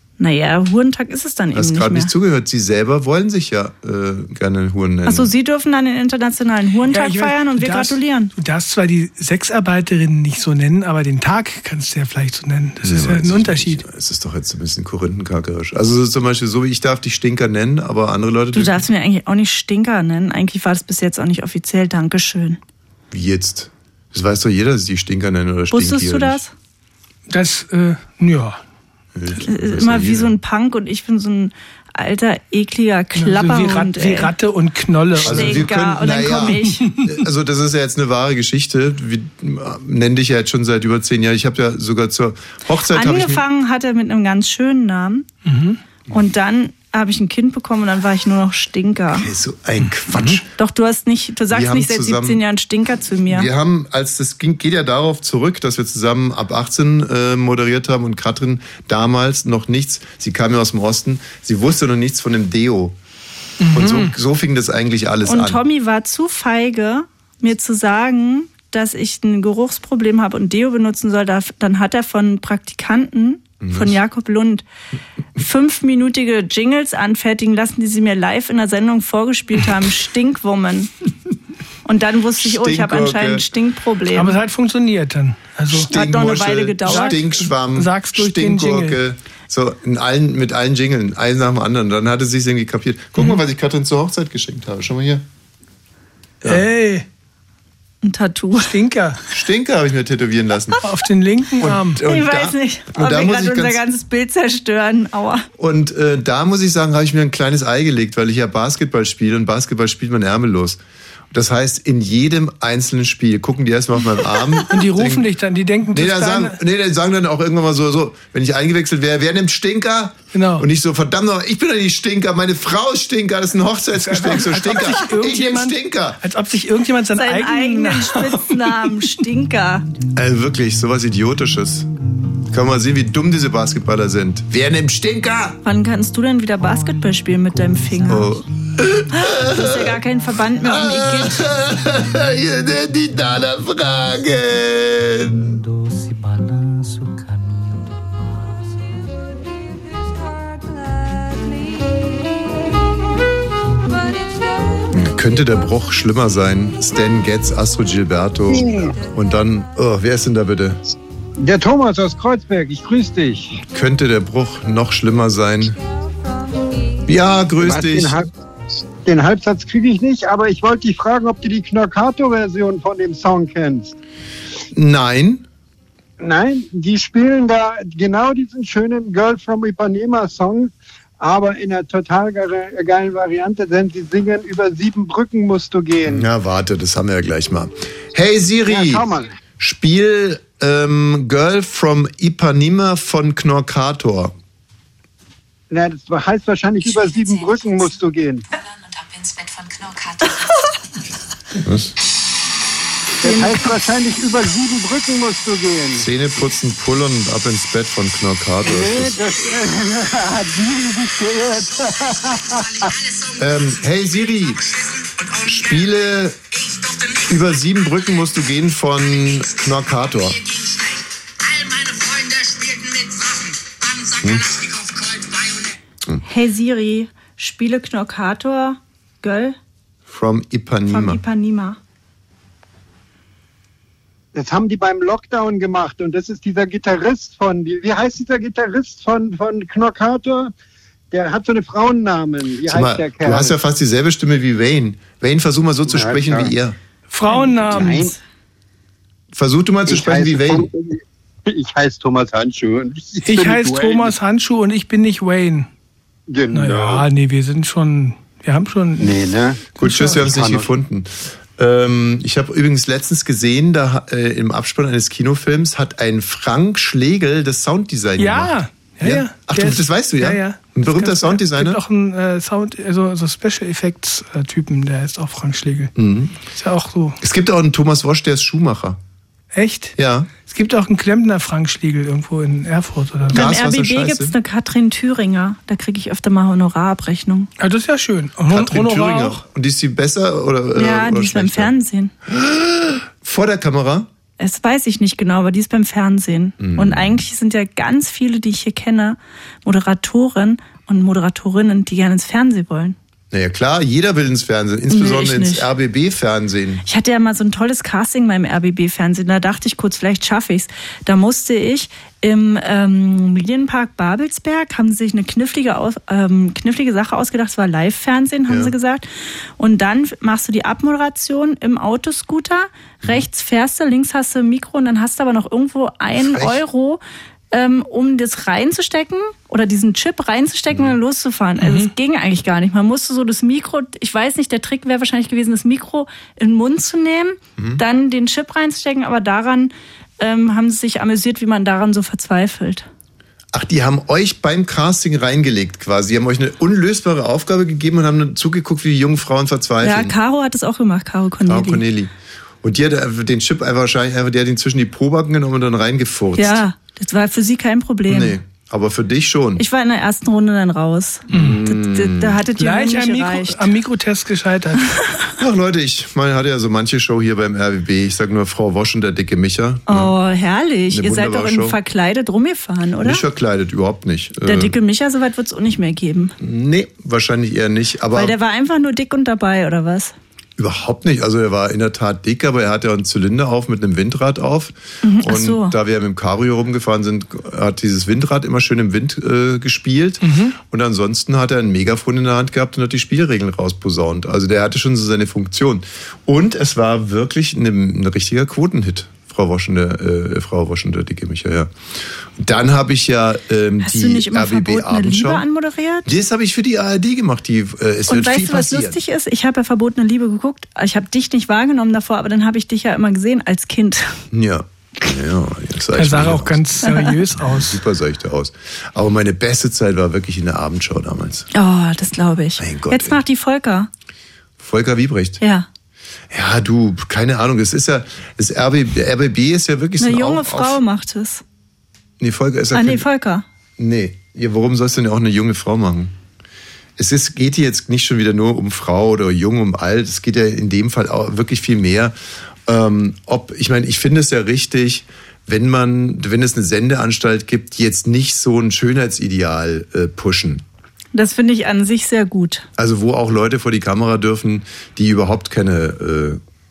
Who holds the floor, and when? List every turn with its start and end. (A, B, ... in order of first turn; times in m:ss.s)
0:00.2-0:02.1 A
0:01.5-0:05.3 B
0:05.1-0:08.3 A
0:06.9-0:13.8 C
0:12.8-0:18.9 B
0:18.5-0:22.6 A
0:23.1-0:26.4 B
0:25.7-0:26.5 A
0:27.3-0:28.6 C
0:29.2-0:30.4 B
0:29.4-0:34.3 A
0:33.2-0:35.7 C
0:35.2-0:43.4 B
0:35.2-0:36.9 A
0:42.8-0:45.3 A
0:45.4-0:45.8 C
0:46.1-0:49.3 A
0:49.1-0:50.5 B
0:50.6-0:53.5 A
0:51.5-0:52.4 B
0:53.3-1:03.0 B
1:03.6-1:04.1 C
1:03.7-1:05.6 B
1:05.2-1:14.7 A
1:13.6-1:14.0 B
1:15.4-1:20.9 A
1:21.8-1:24.4 A
1:22.4-1:23.5 B
1:24.1-1:25.9 C
1:25.7-1:35.2 B
1:25.9-1:27.2 A
1:26.9-1:29.0 C
1:36.4-1:37.1 C
1:38.0-1:38.7 A
1:38.6-1:39.2 C
1:39.3-1:40.8 B
1:40.8-1:42.0 C
1:41.6-1:43.8 B
1:42.0-1:45.5 A
1:45.6-1:50.8 B
1:51.3-1:55.2 B
1:54.7-1:56.6 C
1:55.9-2:06.2 B
2:00.3-2:00.7 C
2:04.0-2:09.1 C
2:07.2-2:09.9 A
2:10.1-2:11.9 B
2:12.5-2:15.6 B
2:15.6-2:18.3 A
2:18.0-2:20.0 B
2:19.1-2:21.5 A
2:20.6-2:25.6 B
2:34.9-2:40.9 B
2:38.5-2:38.9 D
2:41.4-2:43.6 D
2:43.7-2:45.8 B
2:47.1-2:48.2 B
2:47.6-2:48.3 D
2:49.0-2:54.0 D
2:54.7-2:55.4 B
2:56.2-3:06.3 D
3:06.1-3:09.1 B
3:08.7-3:09.4 D
3:09.6-3:14.3 B
3:15.7-3:18.4 D
3:16.8-3:17.9 E
3:18.5-3:20.6 E
3:21.6-3:21.9 B
3:23.2-3:26.1 D
3:23.2-3:23.6 A
3:26.0-3:29.2 B
3:28.6-3:32.9 D
3:32.5-3:35.9 E
3:33.4-3:34.6 B
3:35.5-3:36.4 B
3:36.5-3:38.0 E
3:37.3-3:40.4 B
3:40.1-3:45.8 E
3:46.2-3:49.6 A
3:50.1-3:51.2 B
3:50.9-3:51.8 A
3:54.3-4:00.5 D
4:01.1-4:03.6 D
4:02.7-4:06.8 B
4:05.9-4:06.5 D
4:07.1-4:08.1 C
4:07.4-4:08.2 D
4:09.3-4:10.7 B
4:09.9-4:14.1 D
4:13.2-4:15.7 C
4:16.3-4:17.1 D
4:16.5-4:19.2 C
4:19.0-4:19.7 D
4:19.8-4:20.2 C
4:19.8-4:31.8 B
4:20.2-4:20.7 D
4:28.2-4:35.9 C
4:36.0-4:36.4 B
4:36.5-4:37.2 C
4:37.2-4:39.0 B
4:39.5-4:43.4 C
4:40.0-4:40.3 B
4:43.3-4:44.4 B
4:43.3-4:47.5 A
4:47.6-4:49.4 C
4:48.5-4:51.7 B
4:50.8-4:52.1 A
4:52.3-4:54.1 B
4:54.4-5:03.0 A
4:56.6-4:57.2 B
5:03.3-5:06.8 B
5:04.9-5:05.7 A
5:06.8-5:19.1 A
5:18.5-5:18.8 B
5:19.6-5:42.9 A
5:26.2-5:26.6 B
5:30.7-5:31.0 B
5:31.6-5:31.9 C
5:43.5-5:50.1 B
5:49.8-5:51.8 A
5:51.5-5:52.1 B
5:52.6-5:56.6 B
5:56.4-5:58.4 A
5:58.1-5:59.6 B
5:59.6-6:03.7 A
6:01.3-6:02.4 B
6:01.3-6:01.6 C
6:02.6-6:05.0 C
6:05.4-6:10.1 B
6:09.9-6:13.2 A
6:10.9-6:11.8 B
6:13.0-6:14.8 B
6:14.4-6:16.4 A
6:16.4-6:18.4 B
6:18.1-6:20.1 A
6:20.6-6:41.7 B
6:25.0-6:25.8 A
6:30.2-6:30.6 C
6:42.4-6:45.4 B
6:43.8-6:46.1 A
6:46.1-6:49.0 B
6:48.1-6:54.2 A
6:54.3-6:56.6 B
6:56.0-6:57.8 C
6:56.8-6:57.2 A
6:57.4-7:01.5 B
7:01.5-7:03.9 A
7:02.6-7:03.2 B
7:04.6-7:05.4 B
7:05.4-7:05.7 A
7:06.3-7:10.8 B
7:10.0-7:11.4 A
7:12.2-7:13.1 B
7:12.7-7:13.4 A
7:13.8-7:16.1 B
7:17.0-7:22.2 B
7:22.7-7:30.6 B
7:31.1-7:32.7 A
7:32.8-7:36.4 B